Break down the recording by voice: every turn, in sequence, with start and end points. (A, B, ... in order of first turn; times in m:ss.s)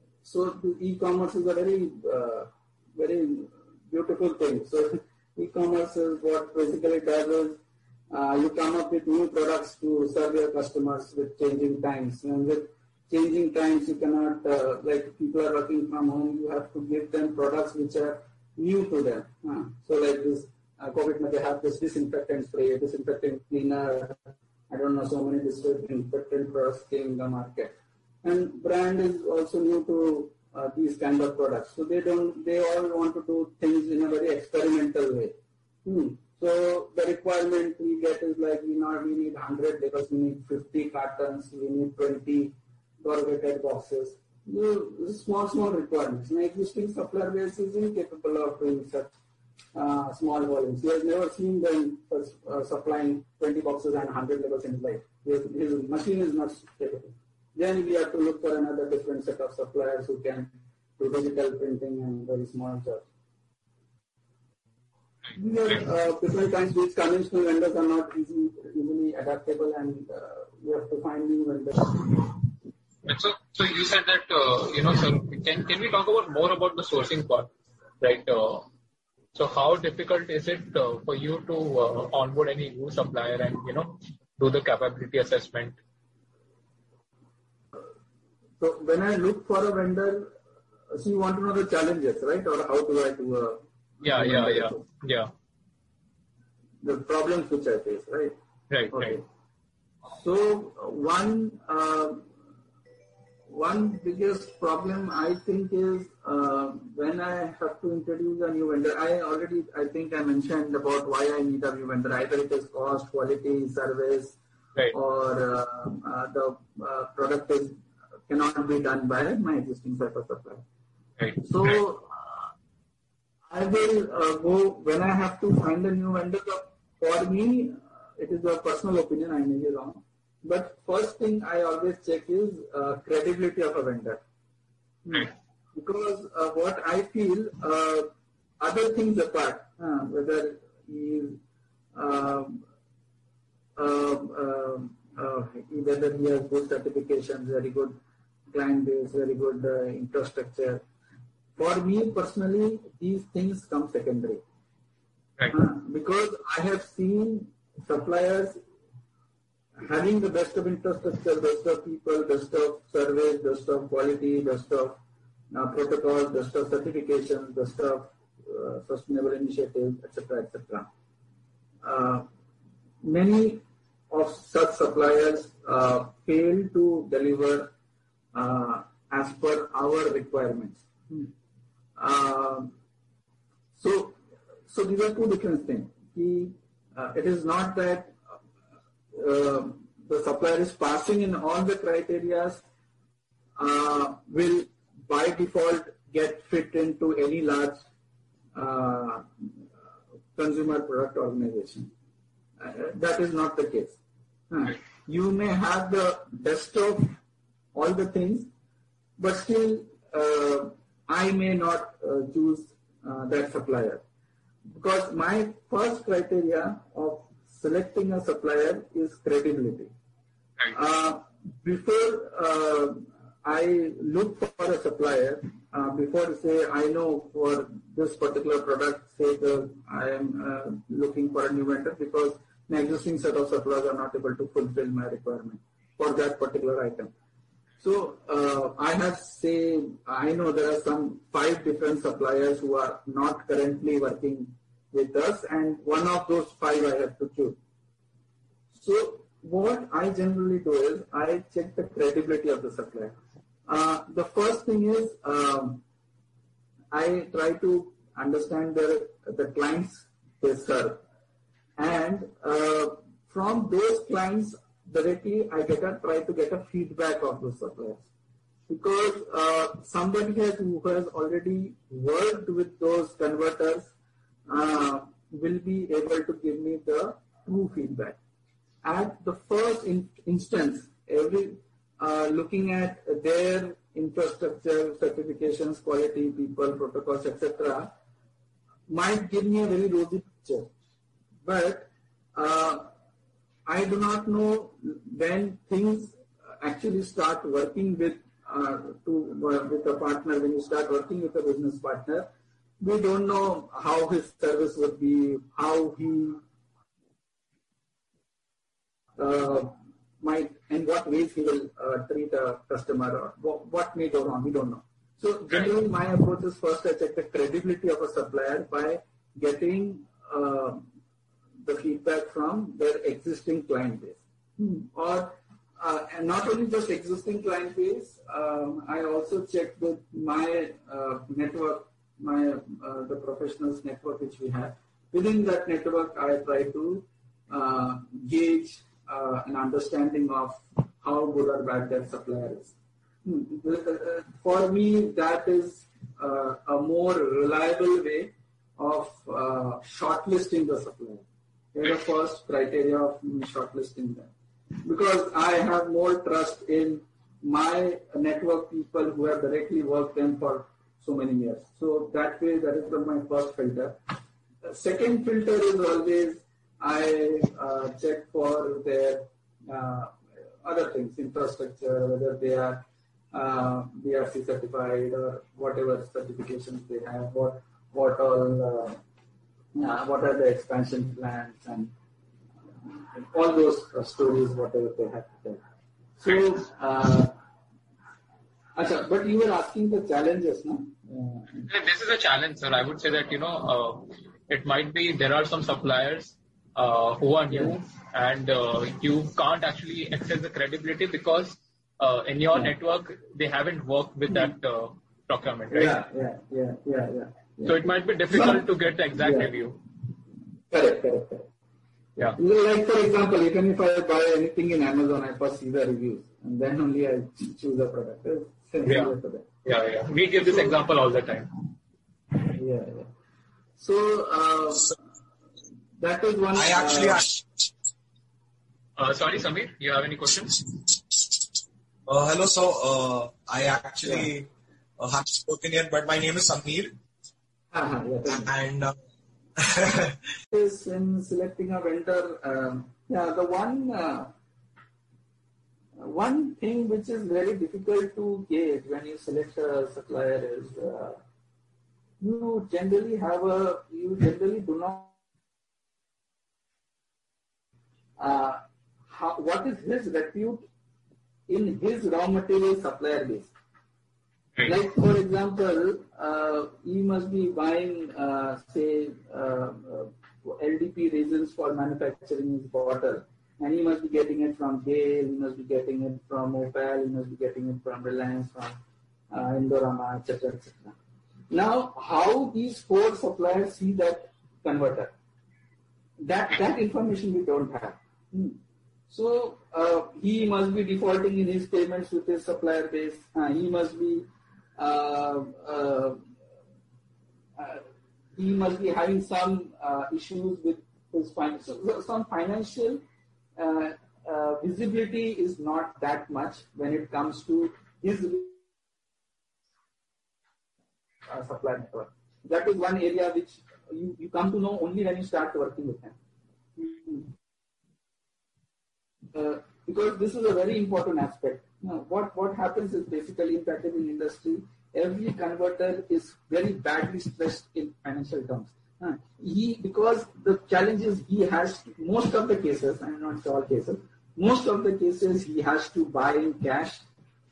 0:00.2-0:07.6 A
0:08.1-0:24.2 A
0:24.7-0:49.2 A
0:49.7-1:03.0 A
1:05.3-1:12.1 A
1:13.0-1:18.7 B
1:19.3-1:25.8 B
1:28.6-1:30.3 A
1:30.9-1:34.8 A
1:34.0-1:35.3 B
1:36.8-1:38.3 A
1:38.7-1:39.2 B
1:38.9-1:39.2 A
1:40.1-1:42.3 A
1:43.5-1:54.4 A
1:54.9-1:57.8 A
1:58.3-2:00.6 A
2:01.2-2:01.8 B
2:01.4-2:02.5 A
2:03.5-2:14.2 A
2:15.0-2:18.1 A
2:18.6-2:21.4 A
2:22.0-2:22.6 A
2:23.8-2:28.0 A
2:28.5-2:30.8 A
2:31.6-2:34.4 A
2:35.5-2:38.6 A
2:39.8-2:45.0 A
2:45.5-2:50.9 A
2:51.8-2:52.3 A
2:53.0-2:57.7 A
2:58.3-3:01.3 A
3:02.0-3:02.7 A
3:03.8-3:08.2 A
3:09.1-3:12.6 A
3:13.6-3:17.8 A
3:18.5-3:19.5 A
3:20.4-3:21.9 A
3:22.6-3:24.0 A
3:24.5-3:27.2 A
3:27.7-3:28.5 A
3:29.2-3:34.0 A
3:34.7-3:39.9 A
3:40.7-3:57.1 A
3:57.8-4:07.6 A
4:08.7-4:13.1 A
4:13.7-4:15.8 A
4:16.9-4:21.0 A
4:21.8-4:28.0 A
4:28.7-4:33.9 A
4:34.5-4:38.2 A
4:38.8-4:47.9 A
4:48.9-4:50.7 A
4:51.4-4:52.9 A
4:53.7-5:02.3 A
5:02.8-5:06.4 A
5:09.2-5:20.8 A
5:21.6-5:54.3 A
5:54.8-6:04.0 A
6:04.6-6:19.0 A
6:19.7-6:21.9 A
6:22.9-6:25.6 A
6:26.2-6:27.3 A
6:28.8-6:31.7 A
6:31.7-6:46.0 B
6:37.5-6:37.8 A
6:45.7-6:48.7 A
6:47.6-6:49.8 B
6:49.2-6:49.5 A
6:50.7-6:51.5 A
6:52.4-6:59.5 A
6:58.9-6:59.1 B
6:59.6-7:01.5 B
7:02.4-7:03.1 A
7:03.8-7:05.0 A
7:06.0-7:07.2 A
7:06.6-7:07.4 C
7:09.0-7:10.6 B
7:12.1-7:16.9 C
7:14.0-7:14.3 A
7:17.7-7:18.5 A
7:18.3-7:18.9 C
7:19.6-7:20.1 C
7:20.5-7:24.3 A
7:26.0-7:31.2 A
7:32.2-7:35.1 A
7:38.2-7:40.7 A
7:41.5-7:43.5 A
7:44.6-7:58.7 A
7:59.3-8:01.0 A
8:01.5-8:05.1 A
8:06.2-8:08.6 A
8:09.1-8:14.3 A
8:14.8-8:16.2 A
8:17.6-8:17.8 A
8:18.4-8:23.0 A
8:23.6-8:28.6 A
8:31.3-8:36.2 A
8:36.8-8:37.3 A
8:39.3-8:57.0 A